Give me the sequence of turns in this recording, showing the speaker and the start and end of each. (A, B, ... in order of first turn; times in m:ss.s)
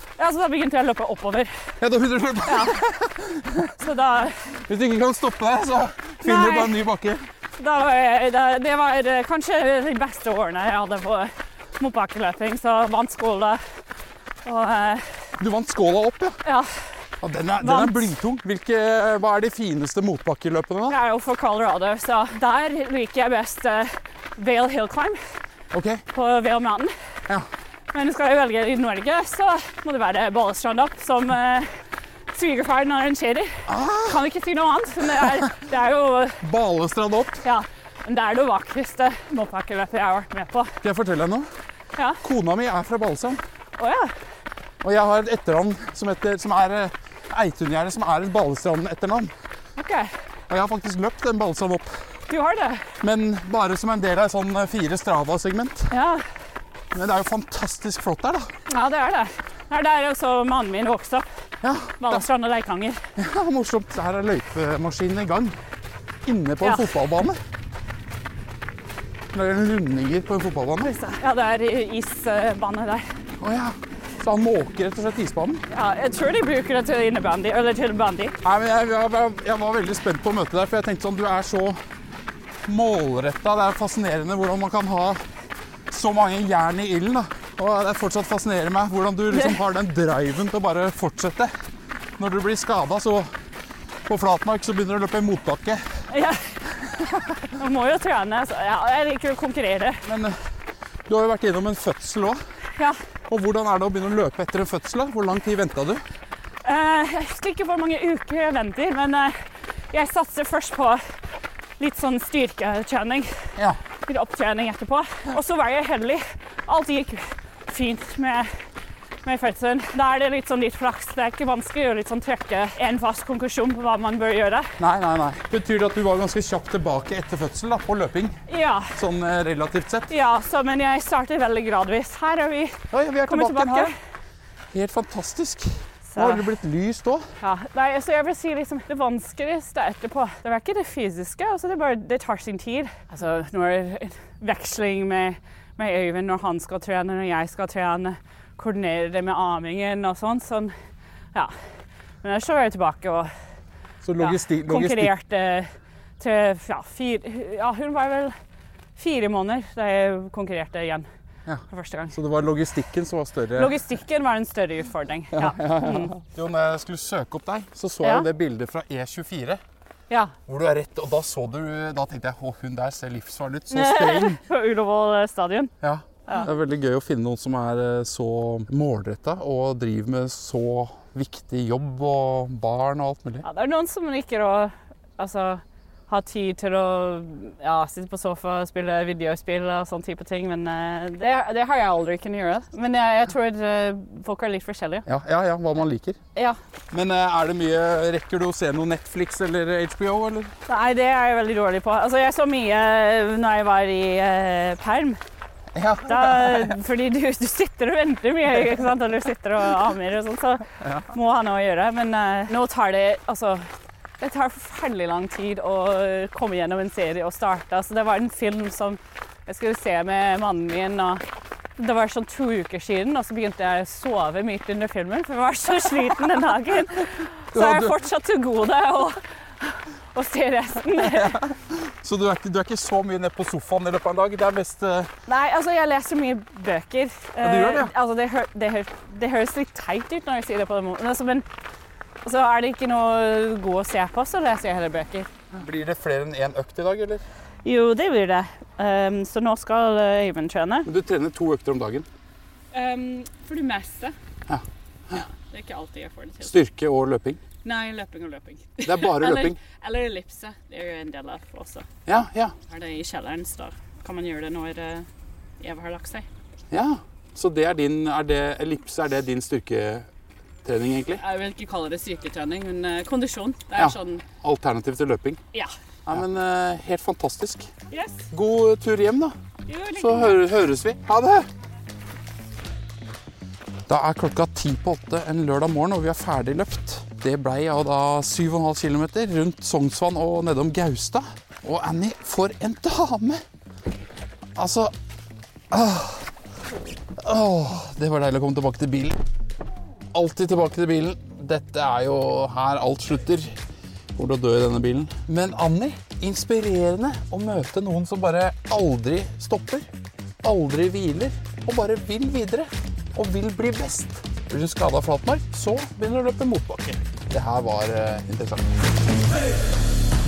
0:00.2-0:01.5 A
0:01.8-0:03.7 B
0:02.4-0:02.8 A
0:03.8-0:04.4 A
0:04.7-0:07.2 B
0:06.2-0:06.7 A
0:07.6-0:13.6 A
0:14.4-0:15.0 A
0:15.4-0:16.4 B
0:16.4-0:16.7 A
0:17.2-0:21.0 B
0:17.6-0:18.1 A
0:20.9-0:25.2 A
0:25.7-0:26.0 B
0:26.1-0:26.9 A
0:27.9-0:31.7 A
0:32.3-0:36.4 A
0:33.7-0:34.2 B
0:35.2-0:35.5 B
0:36.4-0:37.4 B
0:37.4-0:40.7 A
0:40.8-0:41.5 B
0:42.2-0:43.4 B
0:43.8-0:44.1 A
0:44.8-0:49.3 B
0:49.8-0:50.1 A
0:50.5-0:51.9 B
0:52.3-0:52.9 A
0:53.0-0:55.9 B
0:55.9-0:56.2 A
0:56.9-0:58.5 B
0:58.7-1:01.2 A
1:01.6-1:02.2 B
1:02.0-1:03.0 A
1:03.2-1:05.6 B
1:06.2-1:07.4 B
1:06.6-1:06.9 A
1:09.3-1:10.9 B
1:10.8-1:13.0 A
1:13.4-1:15.6 B
1:15.7-1:18.3 A
1:18.4-1:21.8 B
1:22.6-1:25.2 B
1:25.9-1:31.5 B
1:29.3-1:29.6 A
1:32.2-1:33.3 B
1:34.1-1:35.8 B
1:36.1-1:36.6 A
1:37.4-1:40.0 A
1:40.0-1:40.3 B
1:41.1-1:42.4 B
1:43.3-1:46.0 B
1:46.6-1:49.4 A
1:49.9-1:51.0 A
1:51.8-1:53.4 A
1:54.0-1:58.5 A
1:59.2-2:04.7 A
2:04.8-2:08.4 B
2:08.5-2:08.9 A
2:08.9-2:10.1 B
2:10.1-2:13.9 A
2:12.9-2:13.9 B
2:14.7-2:17.3 B
2:16.1-2:16.4 A
2:17.4-2:30.7 A
2:32.2-2:33.3 A
2:34.0-2:35.1 B
2:34.2-2:35.7 A
2:36.2-2:38.4 A
2:39.0-2:41.1 A
2:41.4-2:43.7 B
2:41.7-2:42.1 A
2:43.5-2:46.1 A
2:45.3-2:49.6 B
2:48.0-2:48.3 A
2:50.1-2:50.3 A
2:50.5-2:54.4 B
2:53.7-2:55.7 A
2:55.8-3:03.4 B
3:03.4-3:15.0 A
3:15.0-3:16.2 B
3:16.9-3:20.5 B
3:20.7-3:25.2 A
3:25.7-3:26.7 B
3:26.0-3:41.2 A
3:41.8-3:51.4 A
3:47.5-3:48.0 B
3:51.0-3:55.1 B
3:55.3-4:01.4 A
3:57.4-3:57.9 B
4:02.2-4:05.3 A
4:05.5-4:07.2 B
4:07.6-4:10.9 A
4:10.8-4:12.0 B
4:12.7-4:14.1 A
4:14.5-4:15.2 B
4:15.1-4:16.5 A
4:16.4-4:17.4 B
4:17.6-4:21.8 A
4:18.8-4:19.6 B
4:22.0-4:22.5 B
4:22.7-4:25.1 A
4:25.6-4:26.2 A
4:26.7-4:30.1 B
4:30.6-4:31.2 B
4:31.2-4:34.2 A
4:33.8-4:35.4 B
4:36.0-4:37.7 B
4:37.9-4:38.2 A
4:38.3-4:39.3 B
4:39.6-4:40.4 A
4:40.0-4:41.5 B
4:43.9-4:53.4 B
4:54.6-4:54.9 B
4:55.7-4:56.3 B
4:57.2-4:59.2 B
5:00.1-5:03.6 B
5:04.1-5:09.9 B
5:10.4-5:18.9 B